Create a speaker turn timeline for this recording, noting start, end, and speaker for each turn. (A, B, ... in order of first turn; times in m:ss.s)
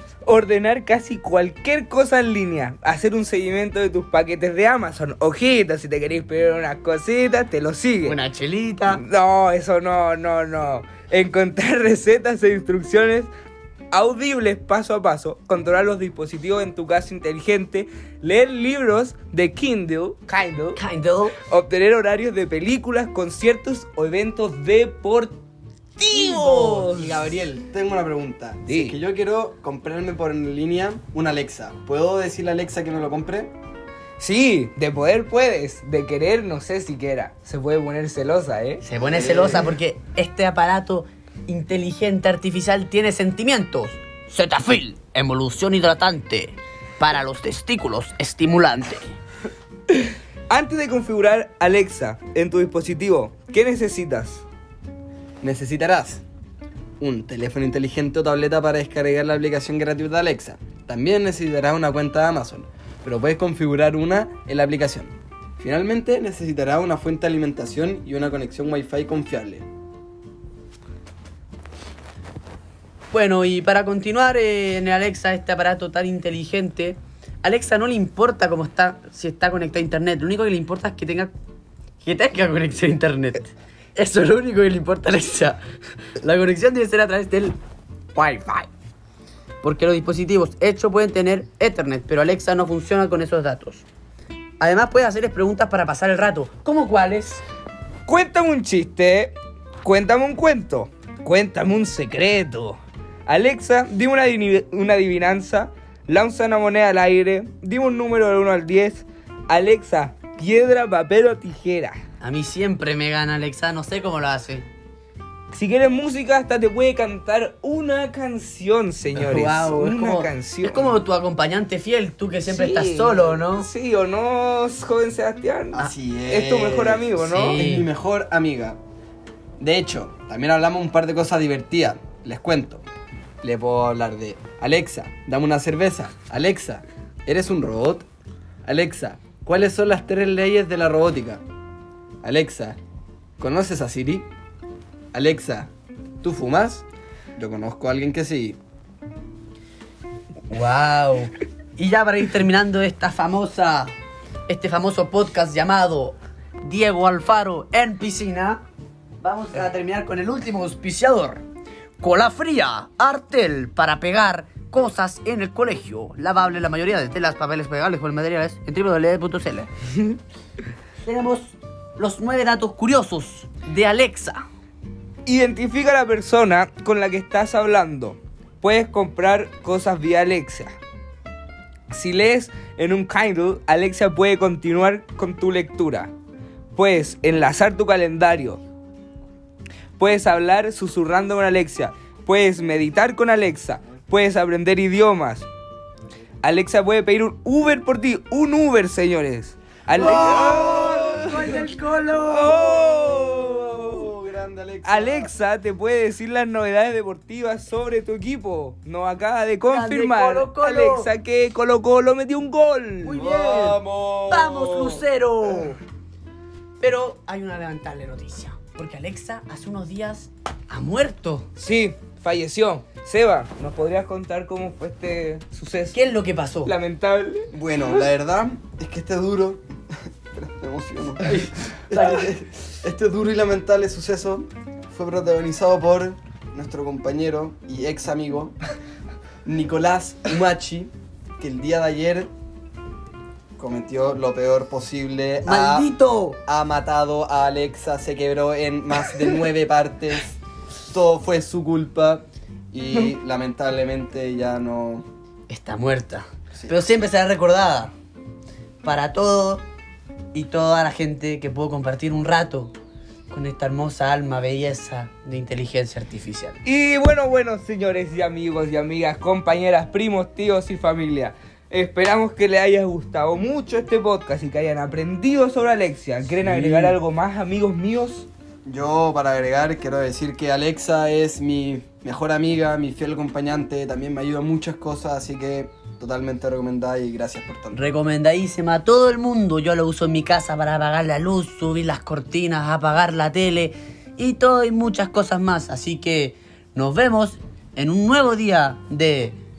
0:00.2-0:08.2 A
0:08.1-0:09.0 B
0:08.9-0:13.3 A
0:13.9-0:20.8 A
0:20.8-0:21.4 B
0:21.4-0:25.4 A
0:26.0-0:27.1 A
0:26.0-0:27.1 B
0:26.8-0:33.5 C
0:28.6-0:29.0 A
0:34.2-0:38.8 A
0:38.8-0:49.2 B
0:39.0-0:39.7 C
0:49.9-0:54.4 A
0:55.4-0:56.2 C
0:57.0-1:09.7 C
1:13.1-1:21.3 B
1:22.0-1:25.6 B
1:26.2-1:27.6 B
1:28.1-1:28.7 B
1:29.6-1:33.8 B
1:34.6-1:37.4 B
1:38.1-1:52.0 A
1:52.2-1:54.7 B
1:55.5-2:01.0 A
1:59.1-2:03.7 B
2:02.5-2:07.6 A
2:05.8-2:08.8 C
2:07.2-2:07.9 B
2:09.6-2:12.8 C
2:13.4-2:18.1 C
2:18.6-2:21.4 C
2:22.2-2:22.8 C
2:23.4-2:24.3 C
2:25.1-2:25.7 C
2:26.2-2:26.8 C
2:27.4-2:28.6 C
2:30.5-2:33.9 B
2:34.5-2:38.6 B
2:39.2-2:41.4 B
2:42.0-2:49.7 B
2:51.0-2:54.4 B
2:55.3-3:00.8 A
3:01.9-3:06.1 A
3:06.8-3:08.6 A
3:10.0-3:15.5 A
3:16.4-3:21.6 A
3:19.9-3:21.6 C
3:20.0-3:23.4 B
3:22.2-3:24.1 A
3:23.4-3:25.3 C
3:24.8-3:33.2 A
3:29.7-3:31.1 B
3:33.0-3:35.8 B
3:33.1-3:35.1 C
3:36.8-3:41.5 B
3:41.6-3:46.0 A
3:45.9-3:46.7 B
3:46.6-3:47.5 A
3:47.5-3:49.6 C
3:50.3-3:58.6 C
3:51.3-3:52.3 B
3:59.4-4:02.3 C
4:03.6-4:05.9 C
4:05.4-4:06.4 B
4:06.4-4:15.1 C
4:15.5-4:17.9 B
4:18.8-4:19.6 B
4:20.3-4:22.7 B
4:23.3-4:26.6 B
4:26.6-4:38.3 A
4:36.4-4:37.0 C
4:38.6-4:47.8 C
4:47.7-4:59.4 B